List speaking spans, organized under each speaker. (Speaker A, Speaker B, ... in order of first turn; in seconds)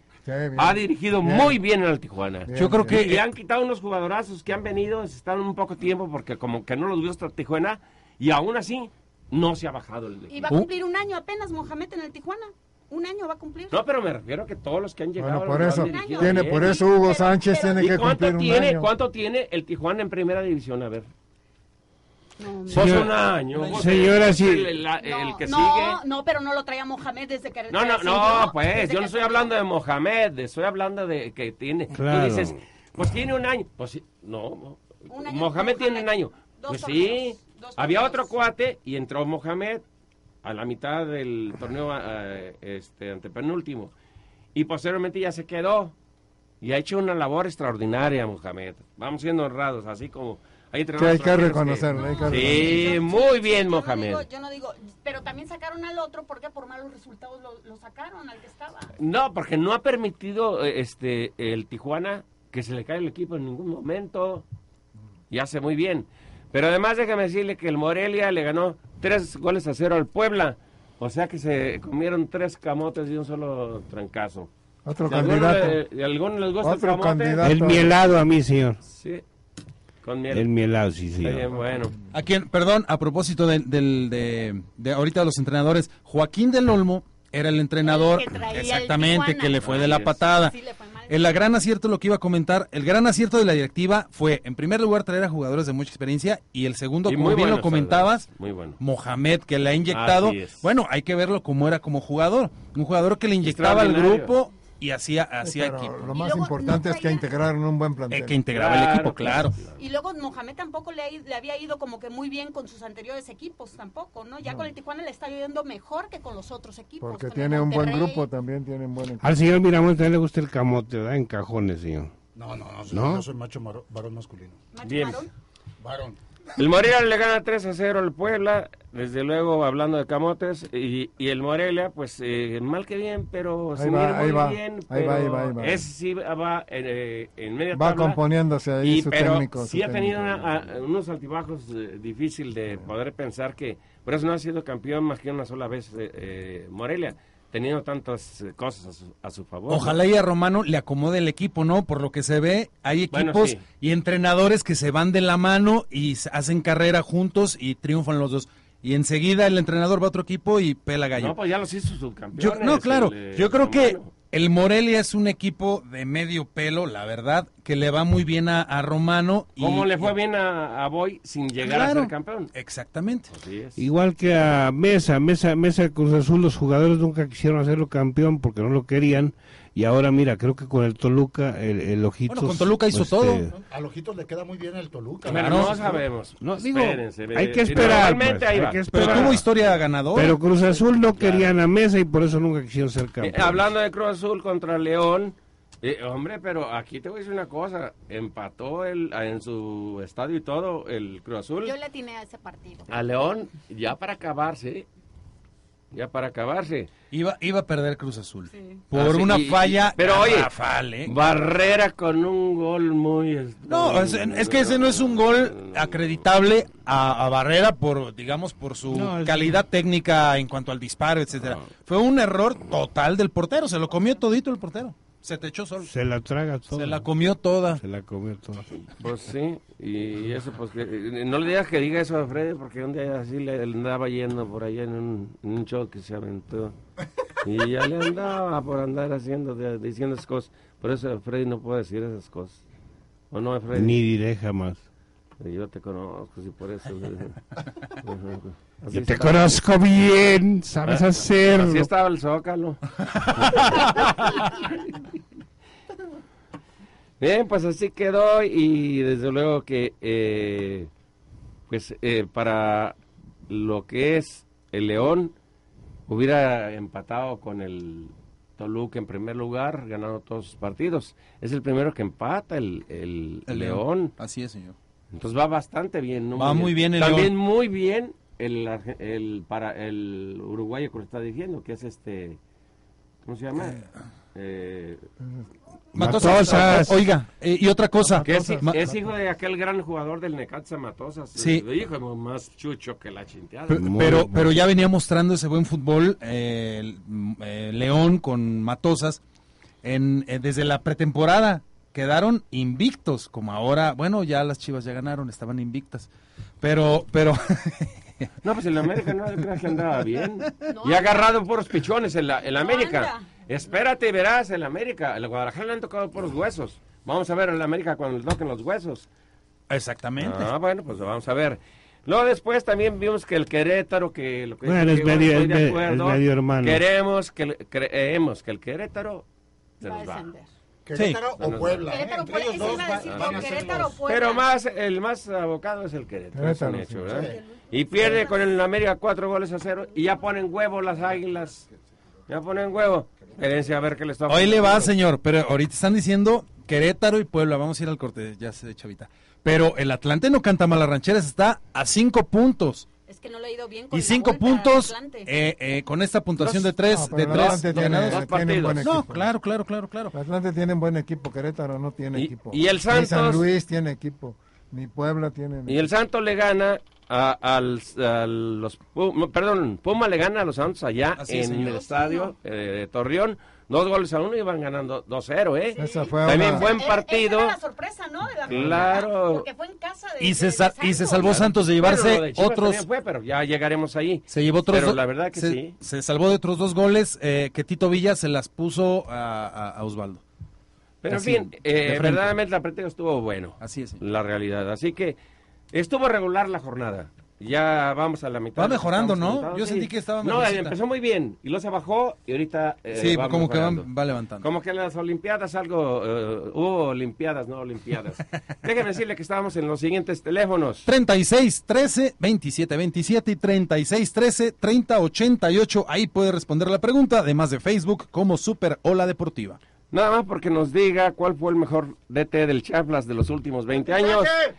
Speaker A: 0.2-1.6, 2.5-3.0, 15.2-18.9, 51.0-53.0, 74.8-75.8, 76.6-77.9, 105.4-108.4, 117.0-119.3, 133.8-135.9, 137.7-140.6, 288.0-288.9, 336.3-337.2, 356.9-359.3, 360.1-365.9, 375.8-376.8
Speaker B: 0.6-10.4, 13.7-16.8, 17.8-21.1, 22.7-26.0, 27.7-39.8, 40.4-43.9, 44.5-46.0, 46.6-54.2, 59.0-64.5, 65.3-74.5, 75.1-77.5, 78.8-79.2, 80.0-80.5, 81.2-81.9, 89.6-90.2, 97.1-98.8, 99.9-100.7, 103.4-104.4, 108.5-109.8, 124.8-125.2, 126.6-138.2, 138.8-149.9, 153.1-153.6, 161.2-164.1, 169.6-172.5, 173.3-173.8, 185.3-189.4, 190.5-191.7, 193.2-201.7, 202.9-204.9, 205.9-206.9, 208.9-210.5, 211.0-216.2, 228.9-236.8, 237.4-242.6, 243.3-244.0, 245.4-247.4, 247.9-249.6, 250.8-255.1, 257.2-260.9, 261.7-265.4, 266.1-274.1, 275.1-282.4, 283.2-285.1, 288.2-294.2, 308.4-319.1, 320.2-329.3, 329.8-330.3, 331.4-331.9, 332.9-341.7, 342.3-345.0, 356.4-358.9, 362.1-363.5, 365.7-377.6, 378.5-379.5, 381.2-385.8, 391.0-395.2, 395.7-410.9, 419.9-424.4
Speaker C: 2.6-3.2, 23.6-23.8, 82.1-90.6, 91.1-98.3, 98.8-106.2, 108.1-109.6, 149.7-161.4, 162.3-170.1, 171.6-173.3, 182.3-183.4, 185.3-185.8, 188.9-190.4, 207.1-211.1, 213.7-225.9, 226.7-227.8, 273.5-274.8, 276.3-277.4, 285.9-288.8, 291.4-291.7, 293.7-299.2, 299.8-306.1, 306.6-308.3, 319.7-320.5, 330.9-331.2, 344.3-352.9, 353.9-358.2, 358.8-360.1, 371.2-371.8, 380.2-382.9, 384.3-390.2, 391.1-392.4, 393.6-394.0, 398.6-400.8, 402.9-404.5, 410.9-419.6
Speaker D: 10.3-13.8, 15.7-17.9, 22.4-23.0, 24.9-29.5, 35.1-38.3, 51.9-58.9, 87.8-91.3, 106.1-107.3, 109.8-118.3, 124.7-125.3, 201.6-202.9, 208.5-208.8, 310.7-311.3, 312.5-313.3, 329.8-330.5, 331.8-334.5, 337.1-338.4, 353.1-355.3, 371.5-372.3, 375.8-381.4
Speaker E: 22.7-24.7, 31.9-32.6, 77.4-78.8, 80.3-81.5, 119.2-122.1, 122.9-123.3, 173.8-183.6, 186.4-189.4, 190.2-193.7, 218.9-219.6, 225.8-227.1, 227.8-228.7, 243.8-244.8, 248.9-251.9, 286.0-287.0, 293.7-294.4, 324.6-326.8
Speaker F: 122.3-124.6, 125.8-126.2, 183.6-186.0, 330.9-334.0, 337.1-337.4